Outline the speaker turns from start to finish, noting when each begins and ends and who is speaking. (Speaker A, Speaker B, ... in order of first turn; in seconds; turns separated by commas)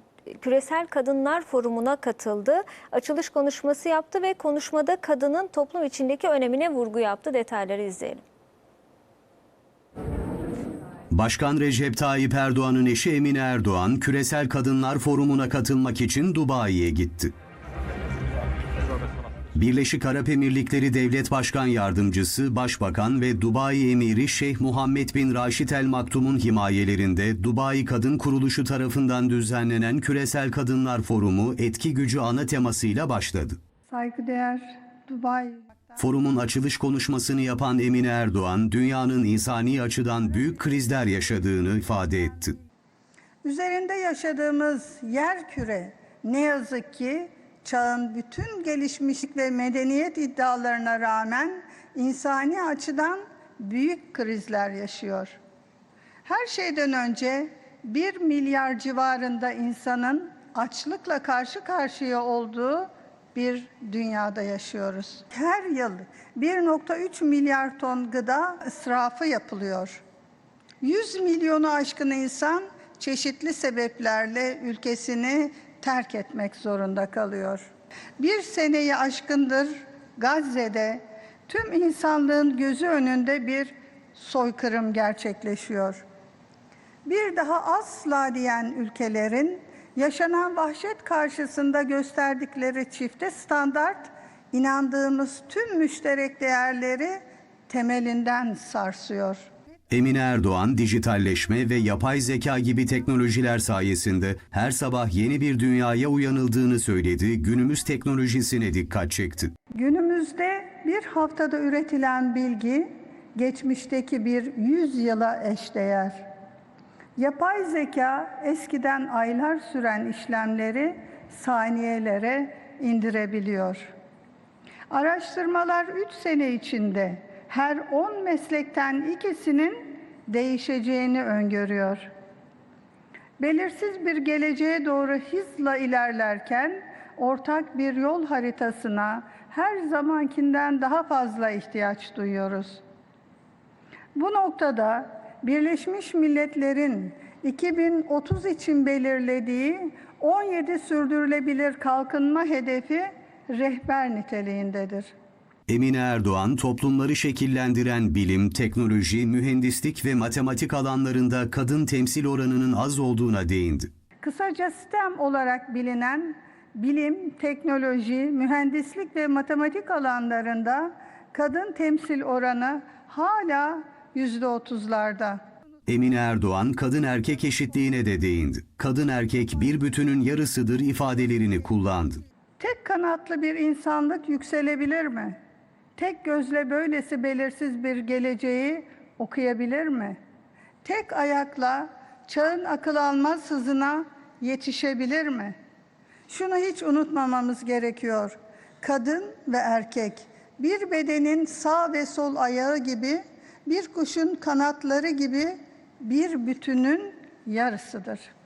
Speaker A: 0.3-8.2, Speaker B: 11.1-17.3, Speaker B: 19.5-33.6, Speaker C: 33.9-35.7, Speaker B: 36.0-42.6, Speaker C: 43.4-55.4, Speaker C: 56.2-70.0, Speaker C: 70.8-86.0, Speaker C: 87.0-99.5, Speaker B: 99.9-109.5, Speaker C: 109.7-116.2, Speaker C: 117.2-123.9, Speaker C: 124.9-132.1, Speaker C: 133.4-142.8, Speaker C: 144.1-155.1, Speaker B: 155.7-163.9, Speaker C: 164.2-175.4, Speaker B: 175.9-182.2, Speaker C: 182.6-185.3, Speaker C: 186.0-190.2, Speaker C: 190.8-195.6, Speaker C: 196.3-208.3